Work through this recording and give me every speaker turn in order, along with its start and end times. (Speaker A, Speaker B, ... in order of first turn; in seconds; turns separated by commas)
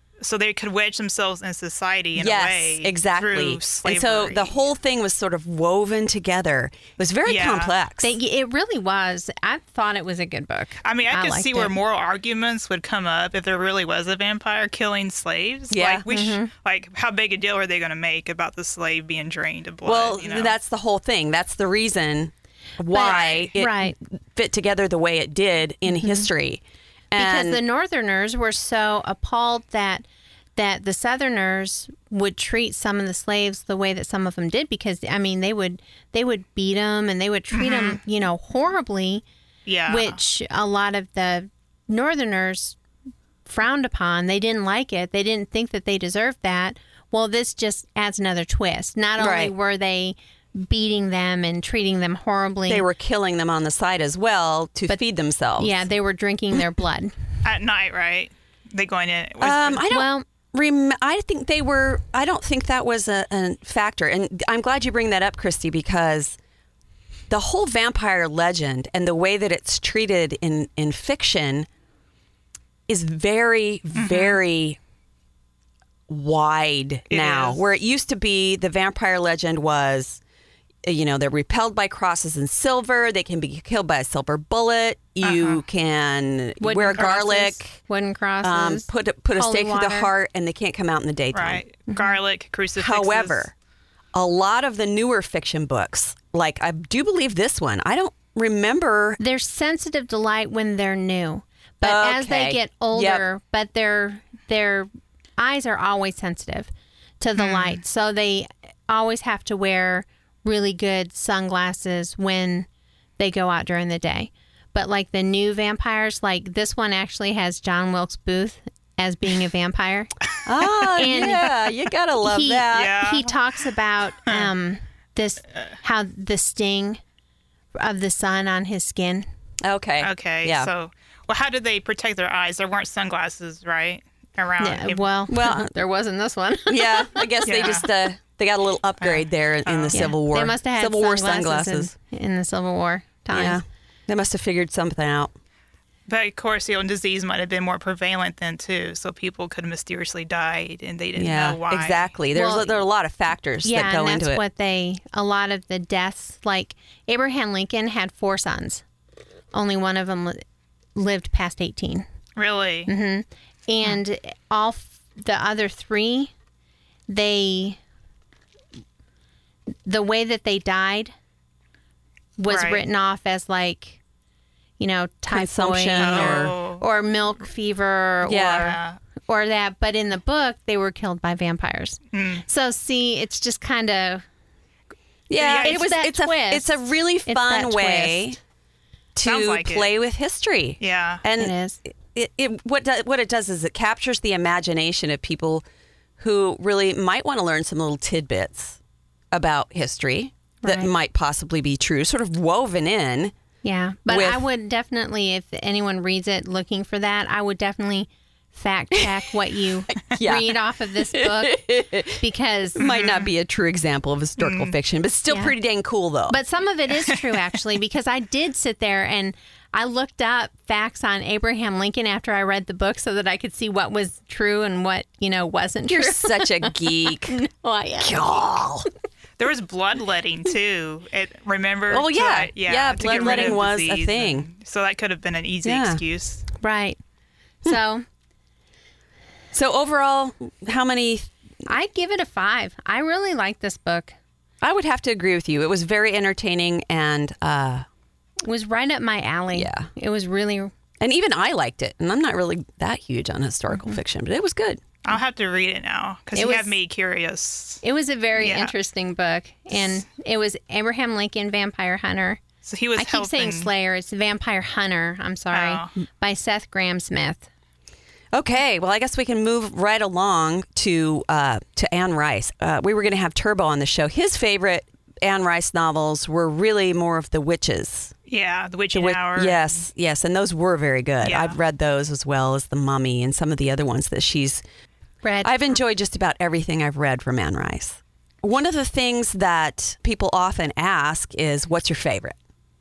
Speaker A: 0.2-4.6, Speaker B: 2.2-8.1, Speaker A: 7.3-7.7, Speaker C: 8.0-11.7, Speaker A: 10.8-20.5, Speaker B: 15.7-16.1, Speaker C: 16.1-16.5, Speaker B: 19.9-27.6, Speaker C: 22.9-24.0, Speaker A: 22.9-23.5, Speaker C: 26.0-26.3, Speaker C: 27.2-30.1, Speaker C: 30.6-39.2, Speaker A: 37.5-38.0, Speaker A: 39.7-40.2, Speaker C: 39.9-42.8, Speaker C: 43.5-52.9, Speaker B: 49.2-49.5, Speaker B: 52.7-55.8, Speaker C: 55.6-57.1, Speaker A: 57.4-59.9, Speaker B: 59.4-66.4, Speaker C: 59.9-60.2, Speaker B: 67.3-71.7, Speaker B: 72.9-74.8, Speaker A: 74.0-74.4, Speaker B: 76.1-80.2, Speaker A: 77.1-77.6, Speaker B: 80.8-87.8, Speaker A: 85.2-85.6, Speaker C: 86.6-90.1, Speaker B: 88.4-91.6, Speaker A: 91.3-93.5, Speaker C: 91.9-92.2, Speaker B: 92.8-93.5, Speaker B: 94.1-99.2, Speaker C: 99.2-112.7, Speaker B: 101.8-103.2, Speaker A: 107.4-107.8, Speaker C: 113.2-120.1, Speaker B: 120.5-123.0, Speaker C: 120.9-121.7, Speaker C: 122.2-127.0, Speaker A: 122.7-123.4, Speaker C: 127.8-129.3, Speaker B: 129.6-130.7, Speaker A: 130.0-135.1, Speaker C: 134.6-137.3, Speaker B: 135.3-135.7, Speaker B: 136.7-141.9, Speaker A: 137.4-137.9, Speaker A: 139.0-140.1, Speaker C: 139.9-143.6, Speaker B: 143.3-145.3, Speaker A: 146.1-152.1, Speaker B: 151.2-154.4, Speaker C: 152.3-152.8, Speaker C: 153.6-158.8, Speaker C: 159.5-160.4, Speaker C: 160.9-162.1, Speaker A: 162.4-162.9, Speaker C: 162.9-166.3, Speaker C: 167.1-167.8, Speaker C: 169.9-171.1, Speaker C: 172.4-174.0, Speaker A: 172.5-172.8, Speaker C: 174.8-184.2, Speaker B: 175.3-176.6, Speaker A: 176.0-176.8, Speaker B: 178.2-178.8, Speaker A: 178.5-179.0, Speaker A: 182.1-182.4, Speaker B: 185.3-188.4, Speaker A: 185.4-185.8, Speaker C: 185.5-188.3, Speaker B: 189.2-195.6, Speaker A: 189.2-189.9, Speaker A: 190.8-191.2, Speaker C: 191.4-191.8, Speaker B: 196.2-198.8, Speaker B: 199.3-203.3, Speaker C: 200.6-200.9, Speaker C: 203.6-212.8, Speaker B: 204.1-204.4, Speaker B: 210.1-210.6, Speaker B: 211.1-212.2, Speaker B: 212.8-216.4, Speaker A: 212.8-213.3, Speaker A: 214.4-214.8, Speaker C: 215.3-215.5, Speaker C: 216.3-228.5, Speaker A: 217.1-217.4, Speaker B: 225.9-227.4, Speaker B: 228.0-228.9, Speaker A: 229.4-236.4, Speaker B: 231.9-234.5, Speaker C: 233.2-233.5, Speaker B: 235.6-236.0, Speaker C: 236.6-237.0, Speaker C: 237.7-238.1, Speaker B: 239.5-241.3, Speaker C: 241.7-244.2, Speaker B: 244.6-247.9, Speaker C: 248.4-250.7, Speaker B: 249.5-249.9, Speaker B: 251.0-254.8, Speaker C: 253.7-254.0, Speaker A: 255.1-257.8, Speaker C: 256.4-256.8, Speaker C: 257.8-262.4, Speaker A: 258.4-258.7, Speaker A: 262.6-263.7, Speaker C: 263.0-267.5, Speaker A: 265.5-265.9, Speaker B: 268.3-278.1, Speaker A: 278.3-279.7, Speaker B: 278.9-284.6, Speaker A: 281.2-281.6, Speaker C: 285.2-285.7, Speaker B: 285.4-292.4